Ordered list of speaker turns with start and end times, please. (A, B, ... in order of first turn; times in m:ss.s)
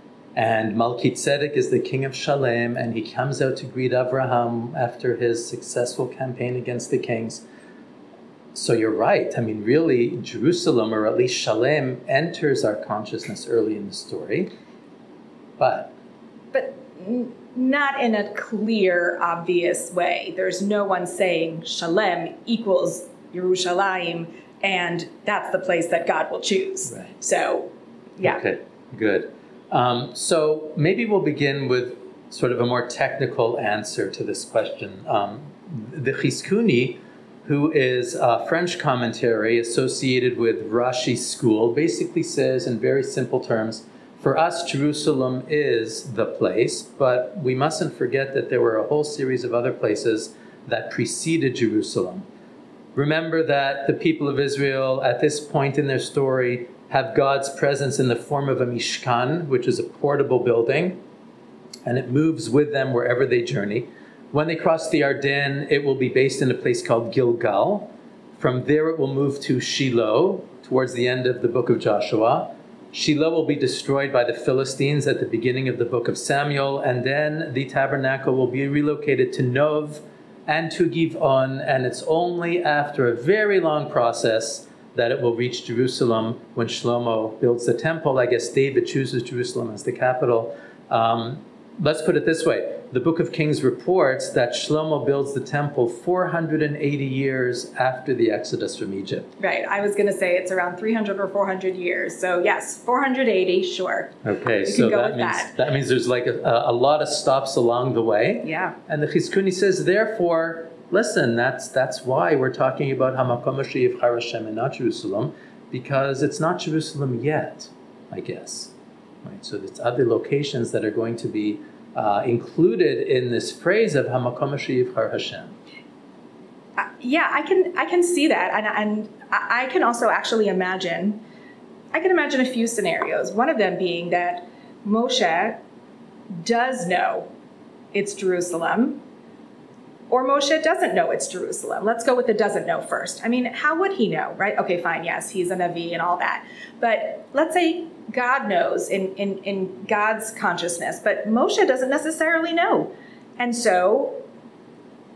0:00.3-0:07.4 A
0:08.5-0:14.5 A
0:15.6-0:15.9 A
0:16.5-0:28.4 B
0:26.9-0:27.1 A
0:28.2-0:52.2 A
0:52.9-1:01.0 A
1:01.8-1:39.3 A
1:39.4-1:45.5 B
1:44.2-1:58.7 A
1:48.4-1:48.8 B
1:59.2-2:05.5 A
2:06.8-2:11.2 B
2:11.9-2:15.6 B
2:16.4-2:17.3 B
2:17.9-2:19.0 B
2:20.1-2:34.2 B